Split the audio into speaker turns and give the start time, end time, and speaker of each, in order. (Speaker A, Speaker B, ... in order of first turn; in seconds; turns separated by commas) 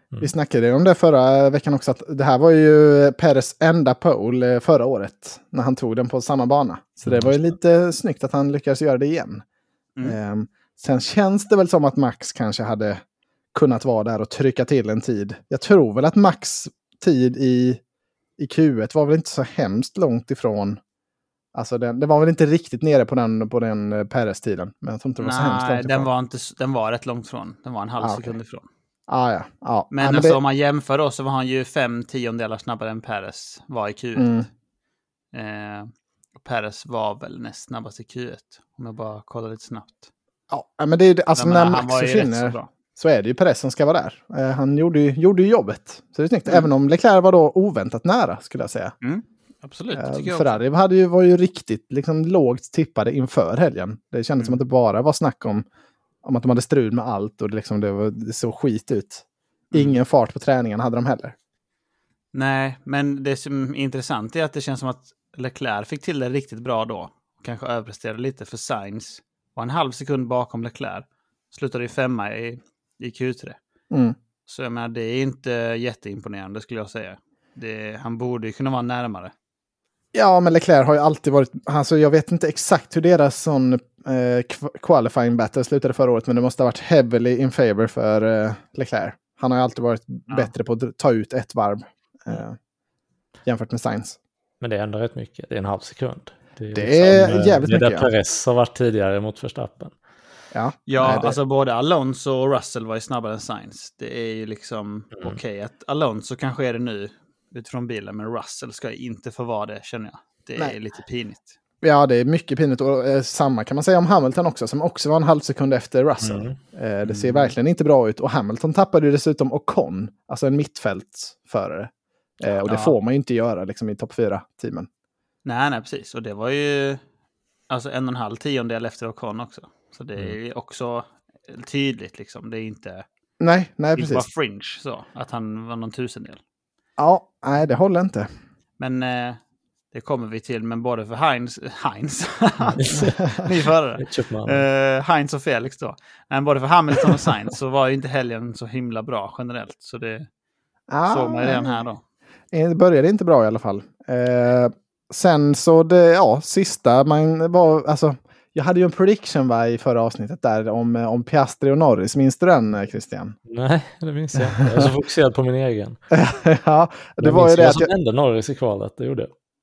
Speaker A: 0.2-9.4, Speaker B: 7.0-7.3, Speaker A: 10.0-13.0, Speaker A: 13.5-17.8, Speaker A: 18.4-20.8, Speaker A: 21.5-26.1, Speaker C: 25.2-28.6, Speaker A: 28.0-28.3, Speaker A: 29.1-30.4, Speaker C: 29.9-34.4, Speaker A: 34.1-34.5, Speaker C: 35.3-40.1, Speaker A: 40.5-48.9, Speaker C: 41.4-42.7, Speaker C: 49.0-50.6, Speaker A: 50.0-55.6, Speaker A: 56.2-61.3, Speaker C: 59.7-60.0, Speaker C: 62.3-73.6, Speaker A: 73.9-74.2, Speaker C: 74.5-79.3, Speaker A: 80.1-92.6, Speaker A: 93.5-94.2, Speaker B: 94.6-99.9, Speaker A: 96.7-98.1, Speaker A: 100.5-101.3, Speaker C: 100.9-111.5, Speaker A: 111.8-124.9, Speaker B: 116.2-116.6, Speaker C: 117.0-117.5, Speaker C: 122.6-122.9, Speaker C: 125.4-127.0, Speaker C: 127.7-133.1, Speaker A: 133.4-134.2, Speaker C: 133.9-136.4, Speaker A: 137.0-138.3, Speaker C: 138.8-139.4, Speaker C: 139.9-150.3, Speaker B: 142.8-143.4, Speaker B: 144.0-144.6, Speaker A: 150.9-151.8, Speaker C: 151.1-152.0, Speaker A: 152.5-163.3, Speaker B: 163.5-166.0, Speaker A: 164.5-164.9, Speaker A: 166.1-167.9, Speaker B: 167.2-169.3